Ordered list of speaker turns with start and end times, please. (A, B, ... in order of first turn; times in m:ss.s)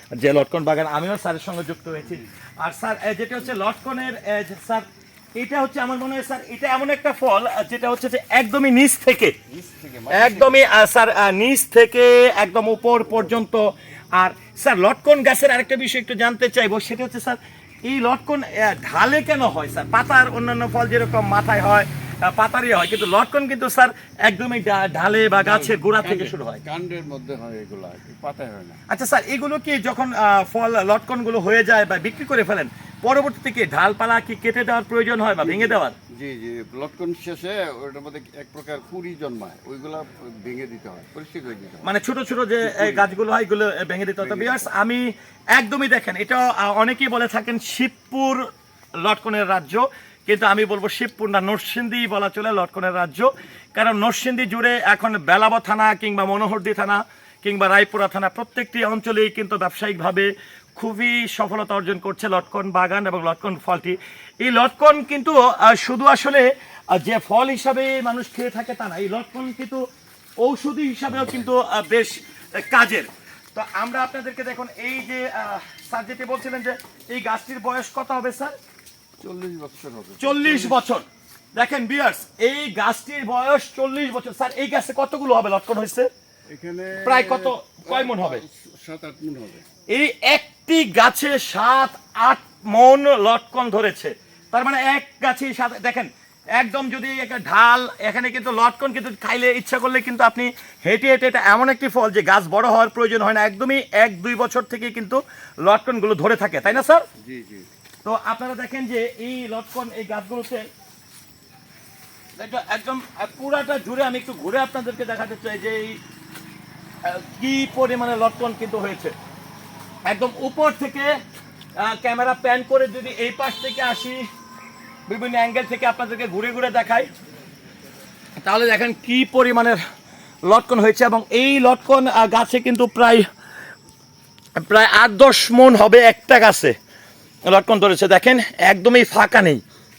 0:00.2-0:09.4 A
0:09.5-0:10.7 B
0:10.1-0:26.6 A
0:25.4-0:28.8 B
0:28.9-0:36.0 A
0:35.4-0:41.9 B
0:41.8-0:48.5 A
0:42.6-0:43.1 B
0:44.2-0:44.7 B
0:49.0-1:09.8 A
1:10.4-1:18.6 A
1:19.2-1:20.8 B
1:20.2-1:26.1 A
1:26.5-1:29.6 B
1:27.0-1:28.4 A
1:29.9-1:47.1 A
1:47.2-1:47.7 B
1:48.0-1:50.7 A
1:52.4-1:56.0 A
1:57.0-1:59.1 A
2:00.0-2:01.2 A
2:01.8-2:04.3 A
2:05.1-2:07.1 A
2:08.4-2:09.8 A
2:10.4-2:13.3 A
2:14.6-2:16.8 A
2:17.5-2:19.6 A